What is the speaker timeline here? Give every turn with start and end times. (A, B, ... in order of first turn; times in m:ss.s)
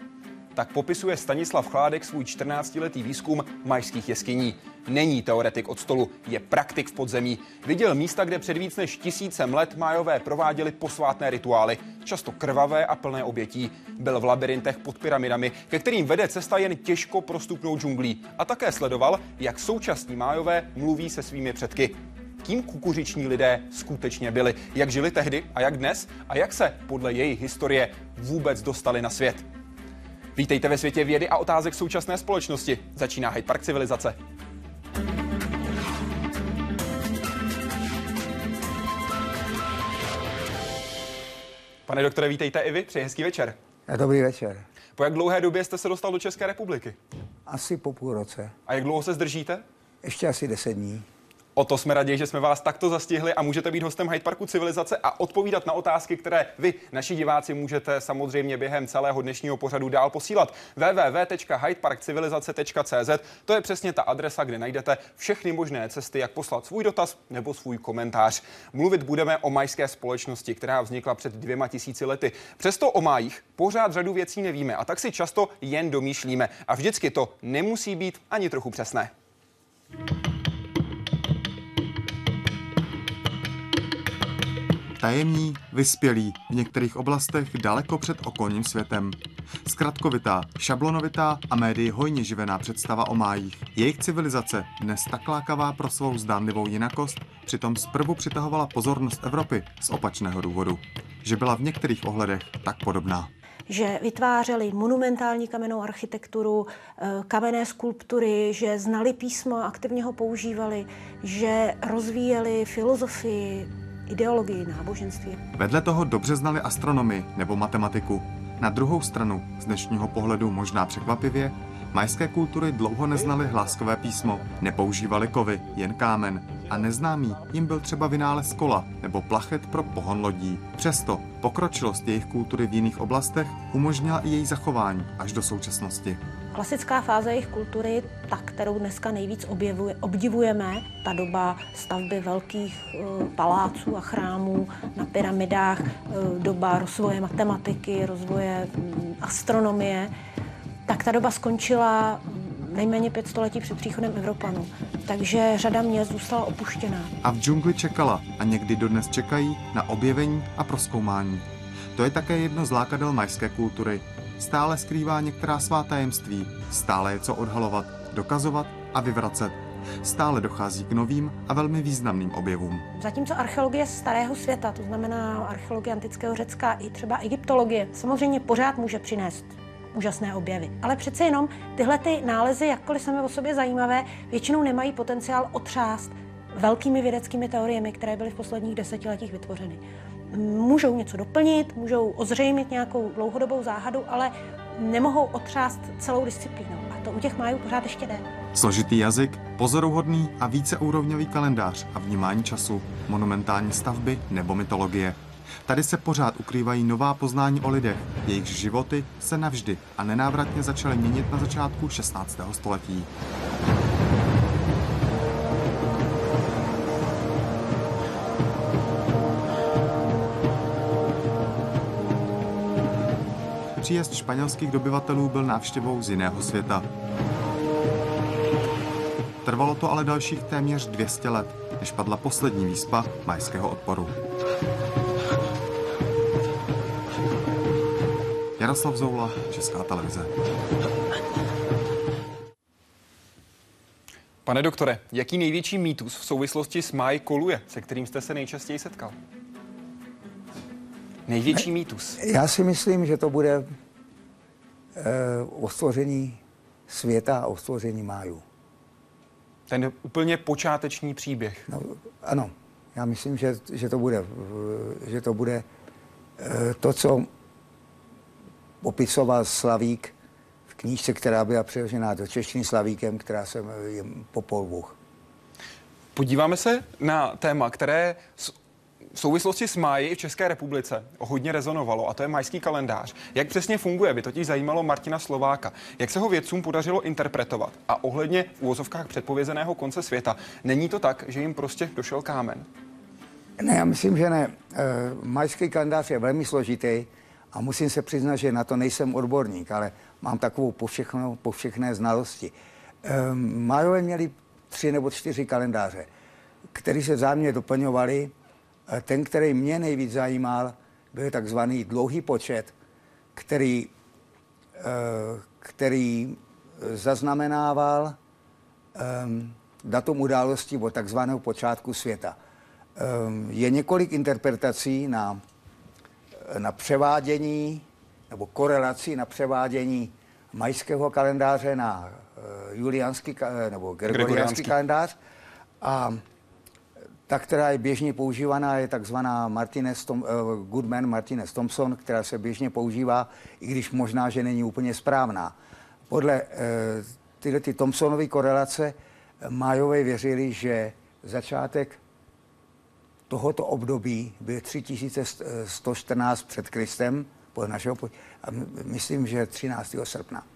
0:00.6-0:29.5 A
0:30.4-0:34.2 A
0:41.9-0:43.6 A
0:43.9-0:44.7 B
0:45.0-0:47.0 A
0:47.5-0:48.5 B
0:48.7-0:49.6 A
0:50.0-0:51.1 B
0:51.6-1:19.1 A
1:25.0-1:43.3 C
1:43.7-1:55.4 D
1:55.6-2:16.2 C
2:16.5-2:30.1 D
2:30.9-2:37.1 D
2:37.2-2:52.9 C
2:52.9-3:18.2 D
3:18.5-3:33.1 C
3:43.8-3:46.9 C
3:49.4-3:54.2 C
3:58.6-4:00.3 C
4:04.5-4:09.2 A
4:11.3-4:12.2 A
4:12.2-4:13.7 B
4:15.0-4:18.4 B
4:19.7-4:21.7 A
4:21.7-4:25.7 B
4:26.4-4:27.3 B
4:28.8-4:30.1 B
4:30.7-4:35.0 B
4:36.1-4:38.6 A
4:39.1-4:52.7 A
4:53.6-5:06.1 B
5:06.7-5:08.3 B
5:08.9-5:12.7 B
5:13.3-5:13.9 B
5:14.8-5:18.2 B
5:19.0-5:22.4 B
5:23.0-5:25.4 B
5:26.4-5:35.2 B
5:34.1-5:34.8 A
5:35.8-5:36.2 B
5:37.3-5:45.6 B
5:46.1-5:52.0 B
5:53.3-6:00.5 B